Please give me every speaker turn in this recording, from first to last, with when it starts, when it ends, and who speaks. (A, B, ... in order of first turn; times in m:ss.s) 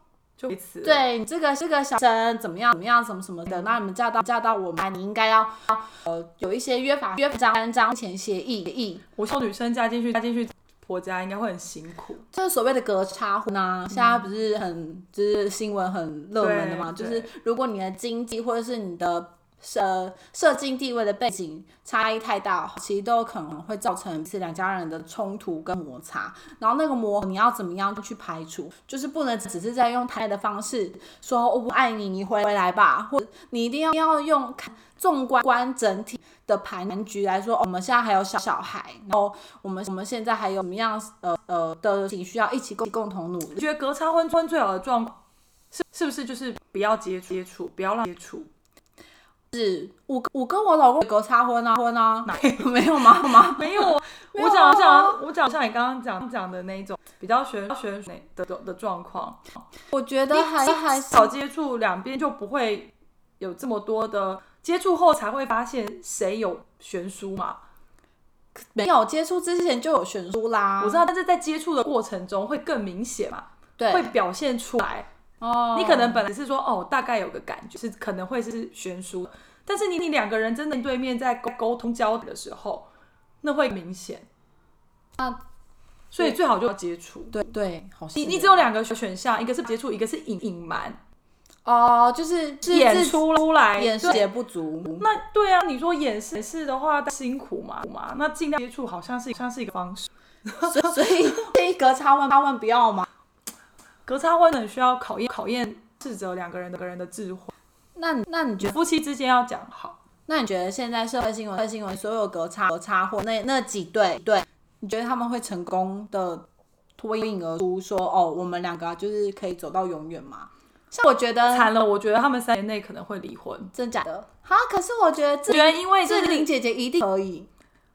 0:00.4-0:01.0 A
0:00.8-0:09.0 B
0:09.2-0:12.2 A
0:12.3-0:43.6 B
0:16.4-0:17.3 A
0:43.6-0:45.2 A
0:45.7-0:48.5 A
0:49.5-0:55.2 B
0:52.3-0:52.7 A
0:53.2-0:59.6 A
0:59.9-1:01.3 B
1:00.3-1:07.6 A
1:08.6-1:11.1 B
1:10.8-1:15.1 A
1:13.8-1:14.1 B
1:15.4-1:16.2 B
1:15.7-1:22.9 A
1:23.4-1:24.3 A
1:26.1-1:27.4 A
1:27.3-1:28.6 B
1:28.2-1:31.0 A
1:31.6-1:35.1 B
1:32.7-1:34.3 A
1:35.0-1:40.9 A
1:40.6-1:43.0 B
1:44.1-1:47.5 A
1:48.0-1:48.8 B
1:48.6-1:50.0 A
1:50.3-1:56.5 B
1:57.0-2:01.7 B
2:01.5-2:03.7 A
2:03.7-2:07.5 B
2:05.5-2:06.5 A